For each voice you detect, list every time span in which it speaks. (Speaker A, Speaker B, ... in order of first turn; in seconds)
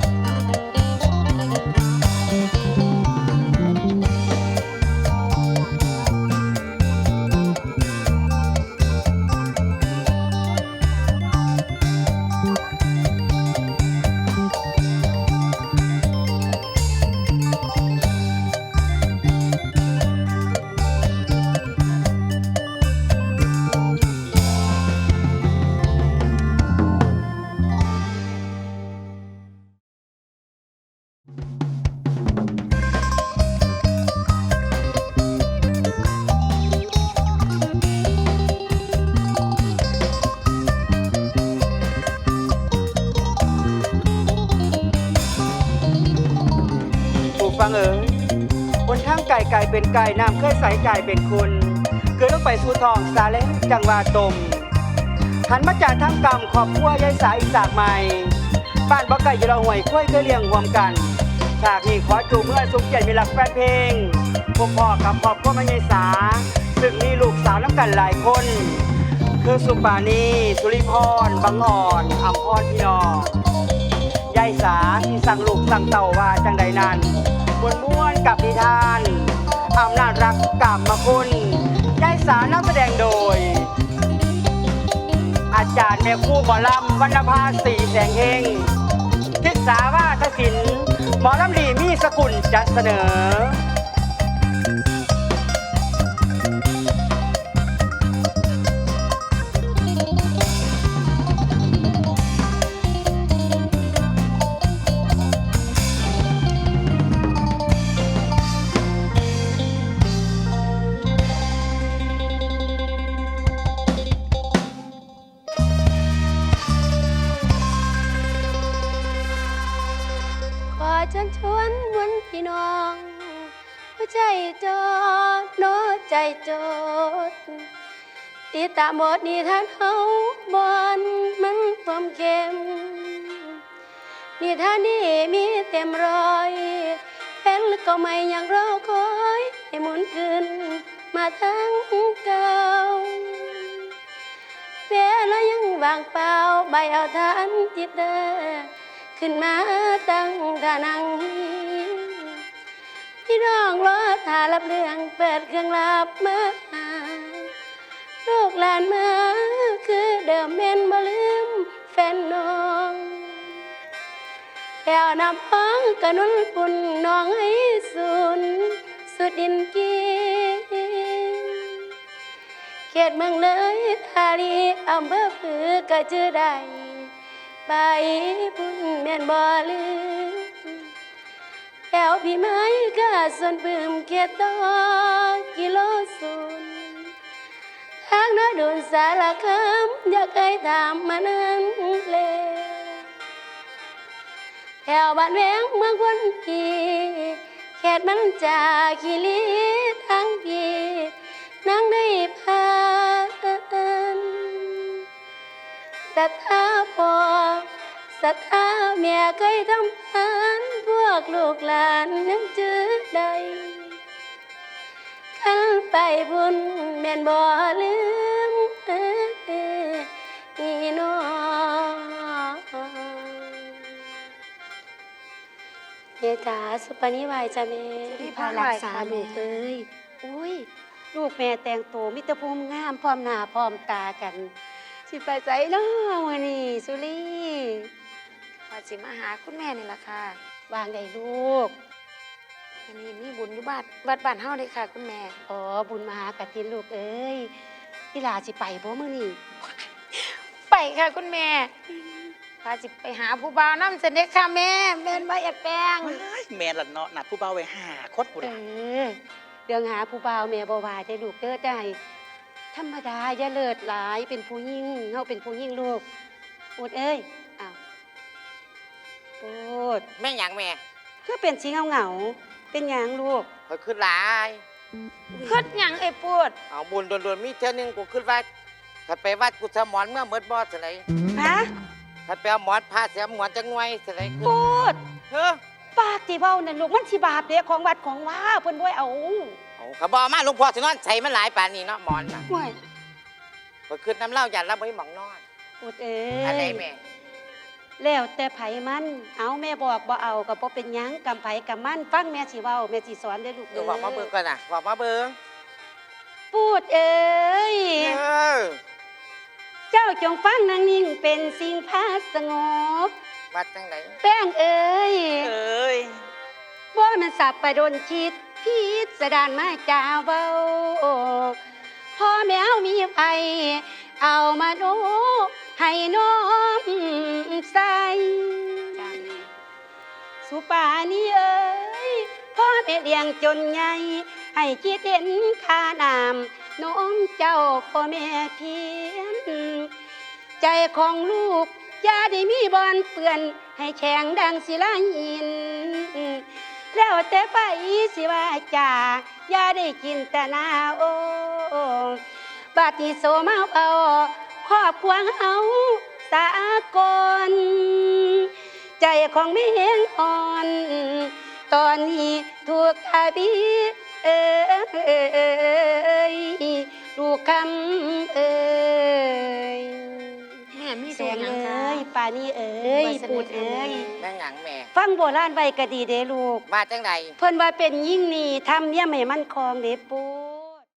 Speaker A: 47.4-48.2, 48.9-54.7, 55.5-58.4, 58.9-68.9, 69.4-73.3, 74.3-83.7, 85.5-88.8, 89.4-93.6
Speaker B: 120.7-127.7, 128.5-133.6, 134.4-143.7, 144.9-152.4, 153.3-157.5, 158.2-163.5, 164.8-171.8, 172.9-177.1, 177.7-180.8, 181.9-187.1, 188.1-193.0, 194.8-201.1, 201.6-205.0, 206.1-207.7, 208.2-214.0, 215.4-223.7, 226.2-228.4, 229.0-229.5
Speaker C: 228.2-229.5, 238.7-240.4, 242.9-245.4, 250.7-251.7, 252.6-256.2, 275.4-276.6, 370.7-372.1, 373.0-374.1
Speaker D: 228.2-234.5, 235.1-237.9, 240.7-241.7, 245.5-247.5, 248.1-249.4, 258.4-259.2, 259.7-262.0, 262.7-266.1, 266.8-267.8, 269.4-270.1, 271.2-273.5, 275.4-275.7, 281.3-281.7, 284.4-285.0, 285.9-289.6, 292.5-292.8, 295.8-296.8, 298.0-304.3, 306.5-308.2, 309.9-313.1, 314.2-315.5, 316.9-321.6, 322.2-329.4, 330.4-339.9, 340.6-352.2, 352.8-358.5, 359.0-370.5, 371.1-374.1, 374.9-376.7, 377.4-380.8
Speaker E: 256.0-258.6
Speaker F: 270.2-270.8, 273.7-274.6, 276.7-278.4, 279.1-281.0, 282.3-284.6, 285.3-285.6, 289.8-292.5, 293.9-295.4, 296.4-297.0, 303.7-305.4, 308.0-308.8, 313.5-314.1, 315.4-316.1, 374.2-374.9, 376.7-377.3